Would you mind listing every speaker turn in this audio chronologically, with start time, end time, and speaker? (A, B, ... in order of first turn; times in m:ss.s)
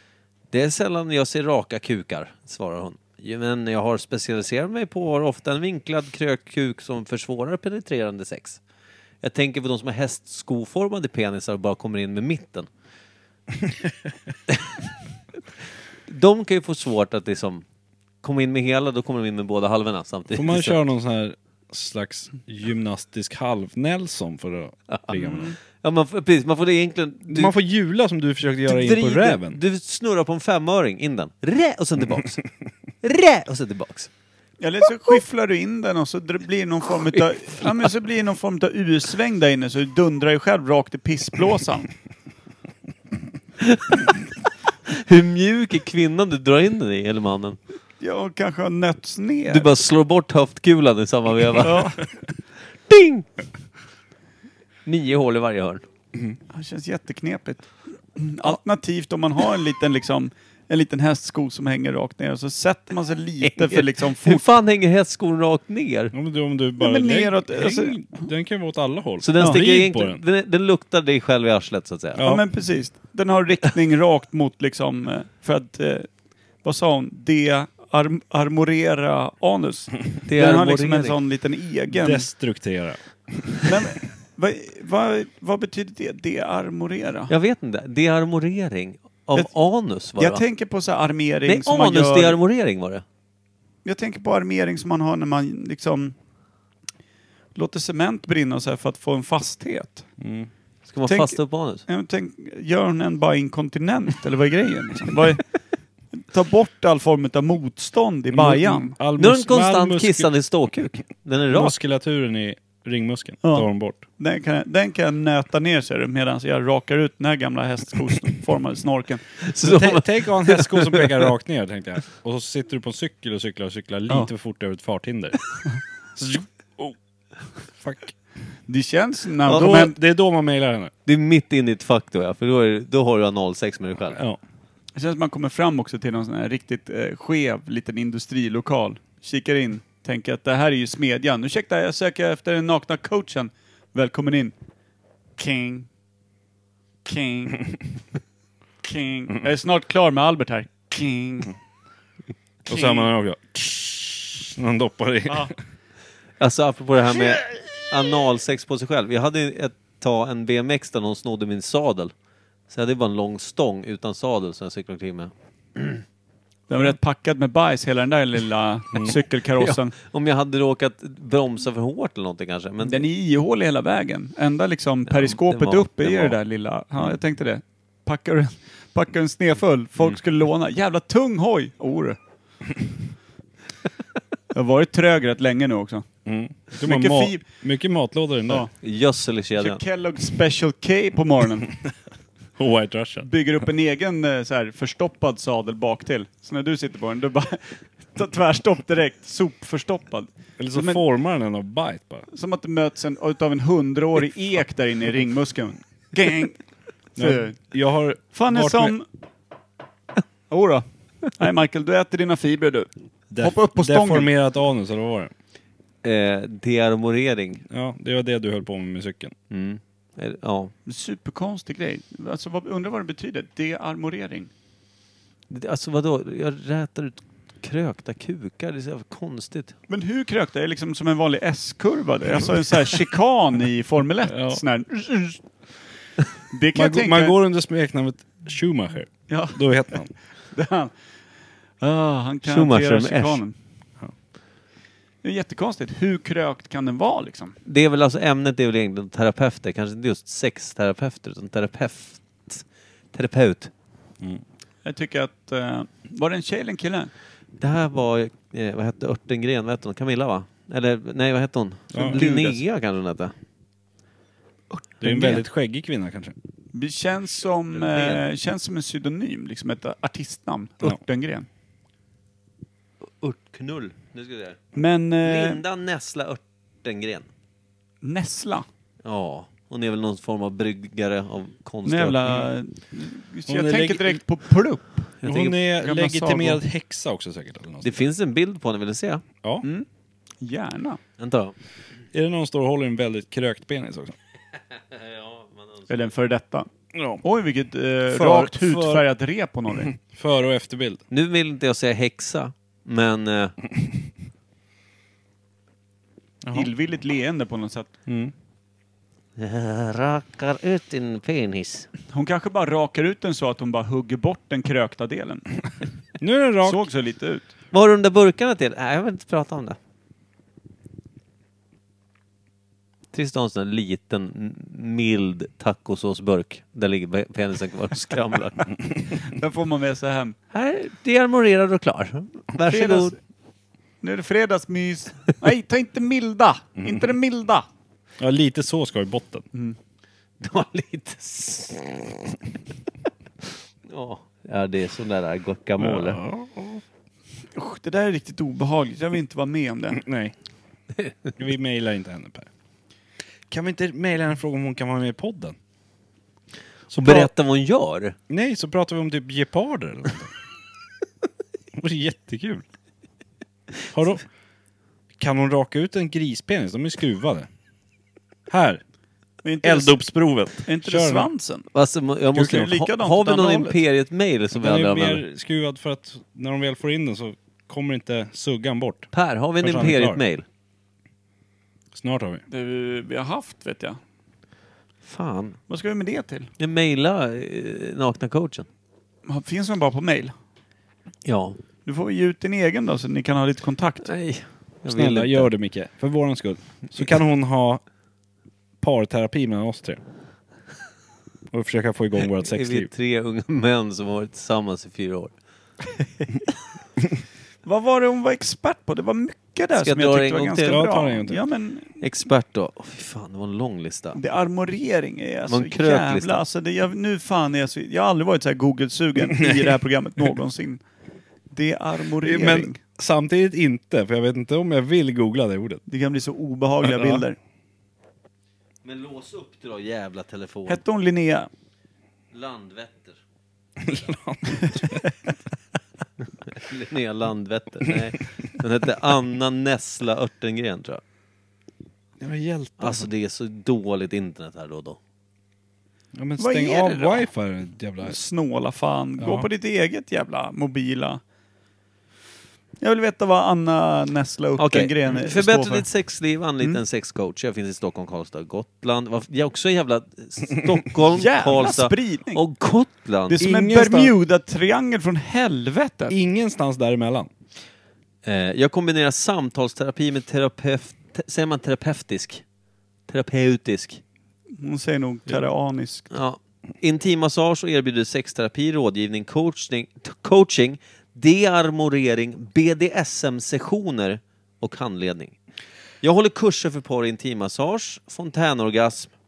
0:00.5-0:08.6 A
0:09.2-0:12.7 A
0:16.1-0:17.6 A
0:18.2-0:20.8 A
0:20.3-0:25.5 B
0:24.9-0:27.5 A
0:27.3-0:29.6 B
0:28.6-0:32.4 A
0:33.0-0:34.1 A
0:34.6-0:41.9 C
0:43.6-0:44.1 A
0:44.9-0:47.6 A
0:48.0-0:49.7 C
0:49.5-0:51.9 A
0:51.6-0:52.0 C
0:52.9-0:53.3 A
0:54.8-0:55.8 A
0:56.5-1:04.4 C
1:03.4-1:06.1 A
1:06.1-1:10.2 B
1:06.8-1:08.3 C
1:09.2-1:12.2 A
1:12.1-1:12.4 B
1:12.2-1:16.1 C
1:16.6-1:22.3 C
1:20.3-1:21.2 A
1:21.9-1:23.6 B
1:23.6-1:27.3 C
1:27.3-1:30.4 A
1:30.2-1:32.4 C
1:31.4-1:33.0 A
1:33.8-1:36.2 C
1:37.5-1:40.1 C
1:40.2-1:40.5 B
1:40.9-1:41.8 A
1:41.0-1:45.5 C
1:46.1-1:49.0 C
1:48.3-1:50.3 B
1:49.2-1:51.7 A
1:51.5-1:54.0 B
1:53.4-1:59.3 C
1:59.4-2:01.3 A
1:59.6-2:05.4 B
2:06.2-2:07.0 B
2:07.7-2:08.2 B
2:08.7-2:10.0 C
2:09.5-2:10.9 B
2:11.0-2:14.2 A
2:14.1-2:14.4 B
2:14.9-2:24.5 C
2:25.4-2:25.9 C
2:27.0-2:27.8 C
2:28.8-2:31.5 C
2:32.6-2:35.5 B
2:32.7-2:33.1 C
2:36.4-2:42.1 A
2:42.7-2:46.0 A
2:46.7-2:49.9 C
2:49.6-2:53.1 A
2:52.8-3:02.2 C
2:55.1-2:56.4 A
3:04.5-3:06.0 C
3:06.2-3:08.6 B
3:06.8-3:07.4 C
3:08.8-3:09.8 A
3:09.6-3:11.7 C
3:12.6-3:13.3 B
3:13.2-3:21.0 C
3:20.6-3:22.3 B
3:22.3-3:26.6 C
3:27.2-3:28.9 B
3:27.2-3:27.6 C
3:28.3-3:29.0 C
3:30.5-3:34.3 C
3:33.3-3:35.3 B
3:36.0-3:37.6 A
3:37.7-3:39.3 B
3:39.5-3:40.7 A
3:40.8-3:44.5 C
3:45.5-3:49.7 A
3:49.9-3:55.4 C
3:54.3-3:54.6 B
3:56.5-3:57.3 C
3:56.7-4:00.1 B
3:59.3-3:59.6 C
4:00.5-4:00.9 C
4:01.8-4:03.6 C
4:02.4-4:03.4 A
4:05.2-4:07.6 C
4:07.6-4:13.7 A
4:14.8-4:17.1 C
4:17.6-4:23.3 A
4:21.9-4:22.2 B
4:22.0-4:22.6 C
4:25.0-4:26.3 B
4:25.0-4:25.4 C
4:26.7-4:31.5 C
4:27.8-4:28.2 A
4:33.2-4:34.7 A
4:34.7-4:35.6 C
4:35.2-4:37.3 A
4:38.0-4:38.6 C
4:39.0-4:42.4 A
4:41.8-4:45.2 C
4:43.5-4:44.2 B
4:45.2-4:45.5 A
4:45.2-4:48.0 B
4:45.8-4:46.6 C
4:47.8-4:49.2 A
4:50.4-4:51.0 C
4:51.2-4:51.5 A
4:52.1-4:54.2 B
4:54.8-4:55.9 A
4:55.9-4:56.7 C
4:56.9-4:57.2 B
4:57.2-4:59.9 C
4:58.1-4:59.0 B
4:59.8-5:01.0 B
5:01.1-5:03.6 A
5:06.4-5:06.7 B
5:06.5-5:07.9 C
5:08.1-5:08.3 B
5:09.4-5:11.9 A
5:12.1-5:15.4 C
5:16.2-5:16.8 B
5:16.6-5:17.5 C
5:17.7-5:19.8 A
5:23.1-5:28.7 A
5:29.2-5:30.4 C
5:30.5-5:33.2 A
5:32.6-5:33.2 C
5:34.0-5:37.6 C
5:36.8-5:37.1 B
5:38.2-5:39.4 B
5:40.4-5:42.4 A
5:43.9-5:46.2 A
5:45.8-5:46.8 B
5:47.5-5:50.0 C
5:50.0-5:50.3 B
5:51.4-5:52.5 B
5:53.5-5:55.6 B
5:56.9-5:58.2 A
5:58.3-6:00.3 B
6:01.7-6:02.6 B
6:03.9-6:04.2 B
6:05.2-6:07.5 B
6:08.5-6:08.8 B
6:09.4-6:10.0 C
6:09.6-6:11.3 B
6:10.6-6:11.7 C
6:11.7-6:15.2 A
6:12.3-6:13.8 C
6:14.6-6:20.2 B
6:19.1-6:20.4 A
6:21.9-6:22.4 B
6:22.5-6:24.0 C
6:25.0-6:25.6 A
6:25.7-6:26.5 C
6:26.6-6:28.7 A
6:29.2-6:30.3 C
6:31.2-6:31.6 A
6:31.8-6:34.1 C
6:34.0-6:35.5 A
6:34.9-6:37.8 B
6:38.8-6:40.0 B
6:41.5-6:42.9 B
6:42.4-6:45.3 A
6:47.6-6:52.0 C
6:49.8-6:50.9 A
6:50.6-6:51.4 B
6:52.0-6:54.2 A
6:54.1-7:00.8 C
6:55.5-6:56.4 A
7:01.5-7:02.8 C
7:02.2-7:05.8 B
7:05.9-7:07.4 C
7:06.8-7:07.2 B
7:08.8-7:10.8 A
7:10.7-7:11.5 C
7:12.3-7:13.2 A
7:13.8-7:15.1 B
7:16.5-7:21.0 A
7:22.2-7:23.1 B
7:22.8-7:25.0 A
7:26.1-7:28.2 B
7:26.4-7:27.2 C
7:28.0-7:31.2 C
7:29.2-7:29.5 B
7:32.8-7:35.9 C
7:34.6-7:43.4 A
7:41.1-7:42.4 C
7:43.3-7:46.1 C
7:43.4-7:44.1 B
7:46.1-7:47.3 B
7:48.2-7:52.4 A
7:53.1-7:54.0 A
7:54.6-7:56.1 C
7:56.1-8:05.4 A
8:06.0-8:09.1 A